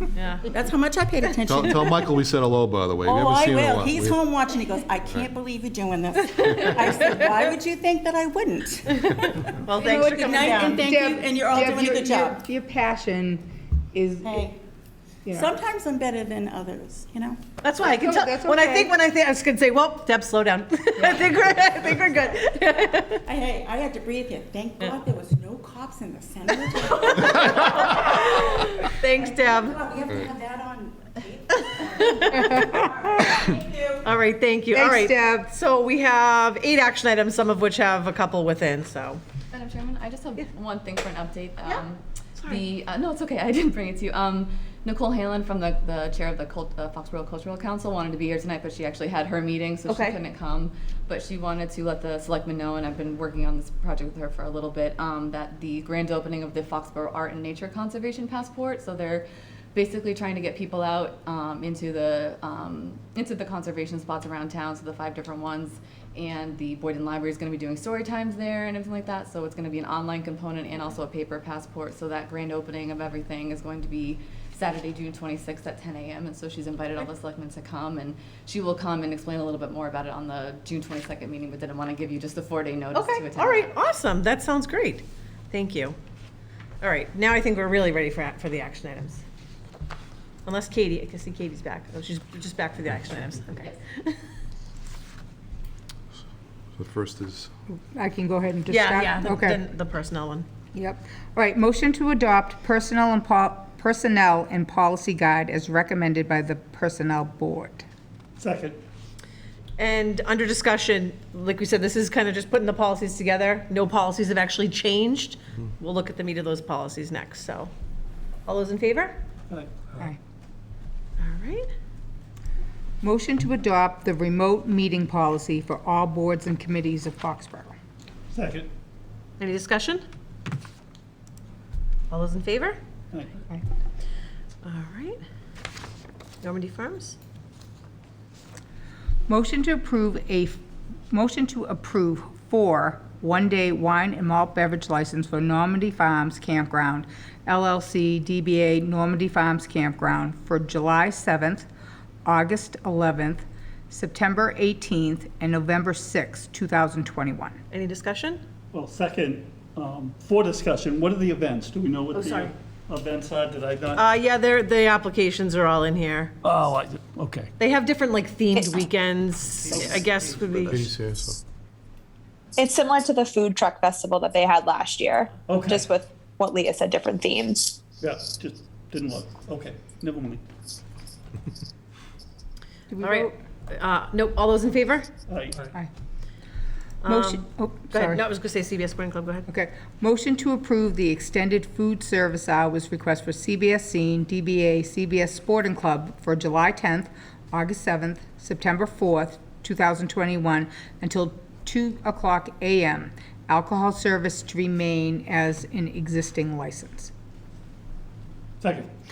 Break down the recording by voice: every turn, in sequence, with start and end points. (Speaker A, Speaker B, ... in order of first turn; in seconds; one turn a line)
Speaker A: 0.1-0.5
Speaker B: 0.5-2.1
Speaker C: 1.5-4.2
Speaker B: 3.0-12.4
Speaker A: 9.5-10.9
Speaker D: 9.8-14.5
Speaker B: 14.2-14.6
Speaker D: 15.2-15.5
Speaker B: 15.3-17.4
Speaker A: 17.6-23.2
Speaker D: 17.8-18.9
Speaker D: 21.0-21.2
Speaker B: 23.2-34.0
Speaker A: 27.2-29.8
Speaker A: 32.0-32.7
Speaker D: 32.4-33.4
Speaker A: 34.0-39.2
Speaker D: 34.7-35.5
Speaker E: 39.5-83.7
Speaker A: 49.9-50.2
Speaker A: 82.9-86.0
Speaker A: 86.8-89.2
Speaker A: 90.5-94.2
Speaker C: 96.7-97.5
Speaker D: 97.7-99.6
Speaker A: 98.7-100.5
Speaker D: 100.7-107.8
Speaker F: 108.4-108.8
Speaker A: 109.8-117.7
Speaker A: 118.5-119.2
Speaker F: 119.5-119.9
Speaker A: 121.2-121.7
Speaker D: 123.0-127.7
Speaker F: 128.3-128.7
Speaker A: 129.4-130.0
Speaker A: 132.1-132.8
Speaker A: 134.6-135.2
Speaker A: 136.4-137.2
Speaker D: 139.3-151.7
Speaker D: 152.2-157.6
Speaker A: 157.7-158.4
Speaker F: 158.7-164.0
Speaker A: 162.1-162.5
Speaker A: 163.9-166.3
Speaker F: 166.4-167.5
Speaker A: 167.6-170.9
Speaker F: 169.7-170.8
Speaker C: 169.7-170.0
Speaker C: 170.6-171.4
Speaker G: 172.6-177.8
Speaker F: 175.5-175.9
Speaker F: 178.0-180.4
Speaker D: 182.9-183.3
Speaker A: 183.0-185.1
Speaker F: 185.3-185.7
Speaker A: 187.0-189.4
Speaker D: 187.1-188.2
Speaker D: 189.5-207.1
Speaker F: 208.6-208.9